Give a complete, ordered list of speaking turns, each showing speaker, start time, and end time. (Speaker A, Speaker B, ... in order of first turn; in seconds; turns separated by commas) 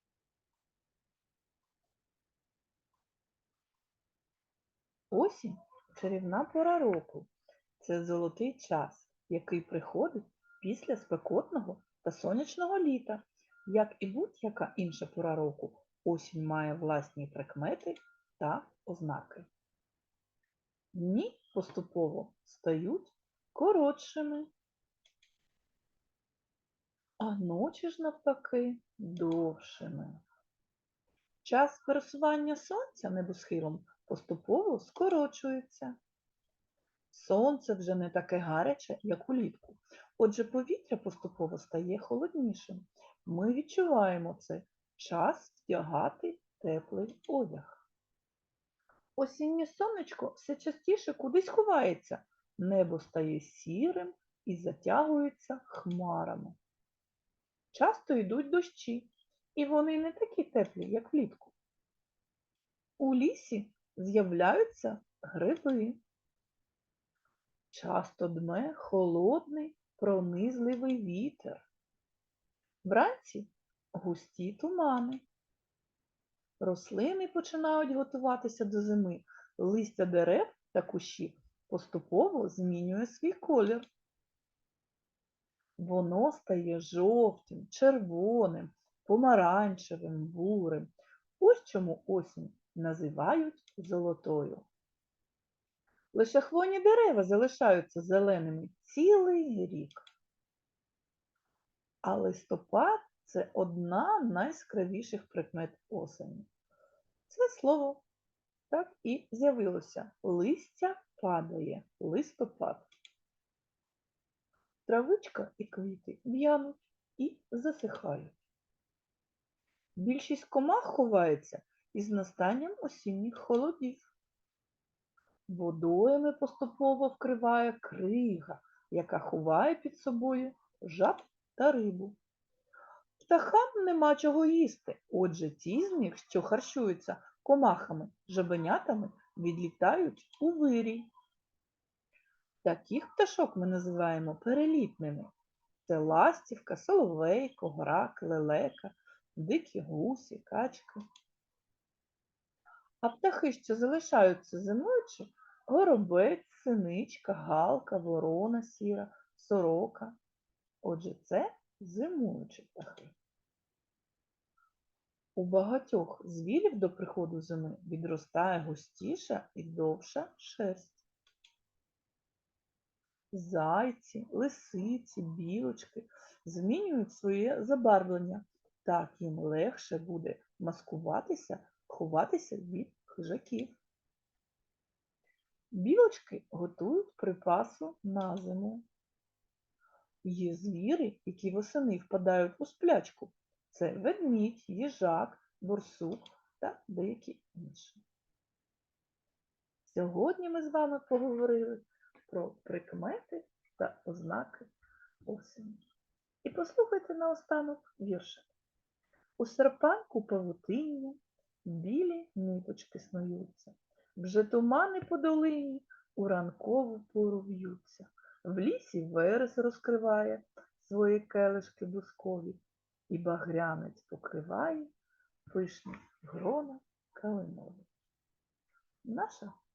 Speaker A: 5.1-19.5, Speaker A: 20.9-24.5, Speaker A: 27.2-30.2, Speaker A: 31.4-36.0, Speaker A: 37.1-47.8, Speaker A: 49.1-56.6, Speaker A: 57.7-61.5, Speaker A: 63.0-66.0, Speaker A: 67.7-71.7, Speaker A: 72.8-75.2, Speaker A: 76.6-83.8, Speaker A: 85.8-94.7, Speaker A: 96.1-100.0, Speaker A: 102.0-106.5, Speaker A: 107.3-108.0, Speaker A: 108.7-112.9, Speaker A: 114.8-118.3, Speaker A: 120.0-124.1, Speaker A: 125.5-132.2, Speaker A: 133.2-141.1, Speaker A: 142.6-145.3, Speaker A: 145.8-151.0, Speaker A: 153.0-160.2, Speaker A: 160.8-163.1, Speaker A: 165.3-171.0, Speaker A: 173.3-183.8, Speaker A: 185.7-188.8, Speaker A: 190.2-198.0, Speaker A: 199.8-204.7, Speaker A: 205.2-205.8, Speaker A: 206.4-208.5, Speaker A: 209.4-224.9, Speaker A: 225.5-227.9, Speaker A: 229.0-229.5